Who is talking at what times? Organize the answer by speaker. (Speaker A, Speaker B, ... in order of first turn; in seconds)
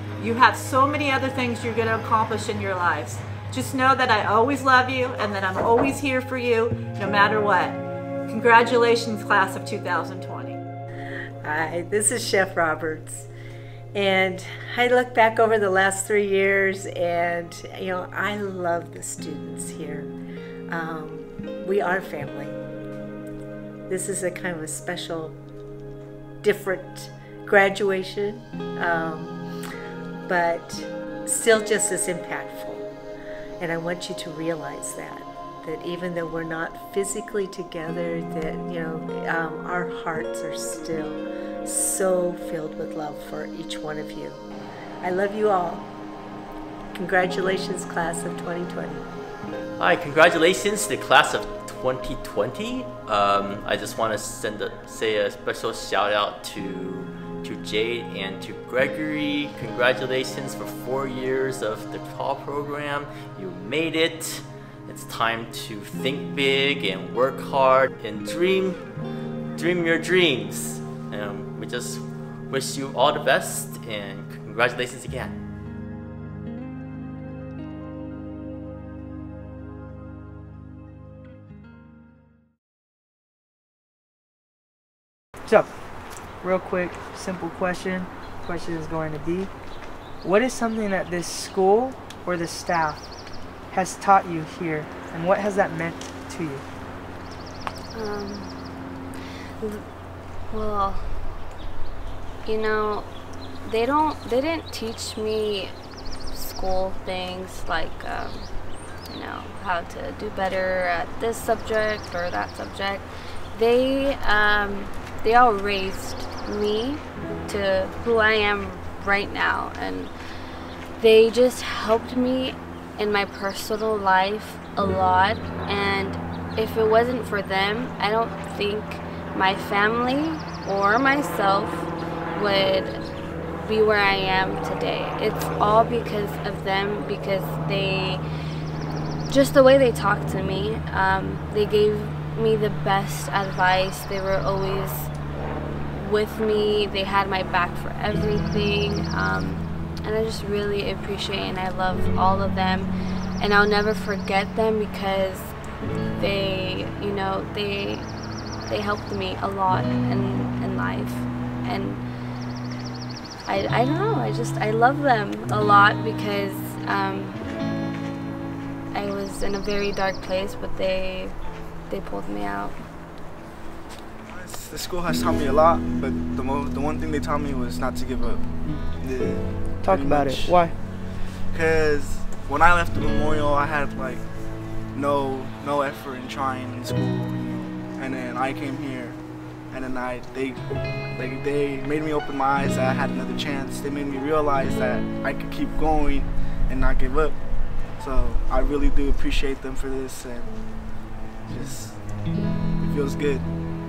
Speaker A: 0.2-10.6
Speaker B: 11.4-13.3, 13.9-20.1, 20.7-22.6, 23.9-25.4, 26.4-29.4, 30.2-32.9, 33.6-44.4, 45.0-45.9, 46.9-49.0
Speaker C: 49.8-68.9, 69.5-75.4
Speaker D: 85.5-85.7, 86.4-89.5, 90.2-93.1, 93.7-96.6, 179.8-180.8
Speaker E: 97.9-99.9, 100.5-101.4, 102.4-103.1, 103.6-105.8, 106.3-108.5, 109.0-133.0, 133.6-138.2, 139.3-145.1, 145.9-155.6, 156.2-158.1, 158.6-162.0, 163.4-167.4, 168.9-171.3, 171.9-172.8
Speaker F: 174.3-180.7, 181.4-184.2, 184.9-197.3, 198.0-200.6, 201.5-202.0, 202.8-203.5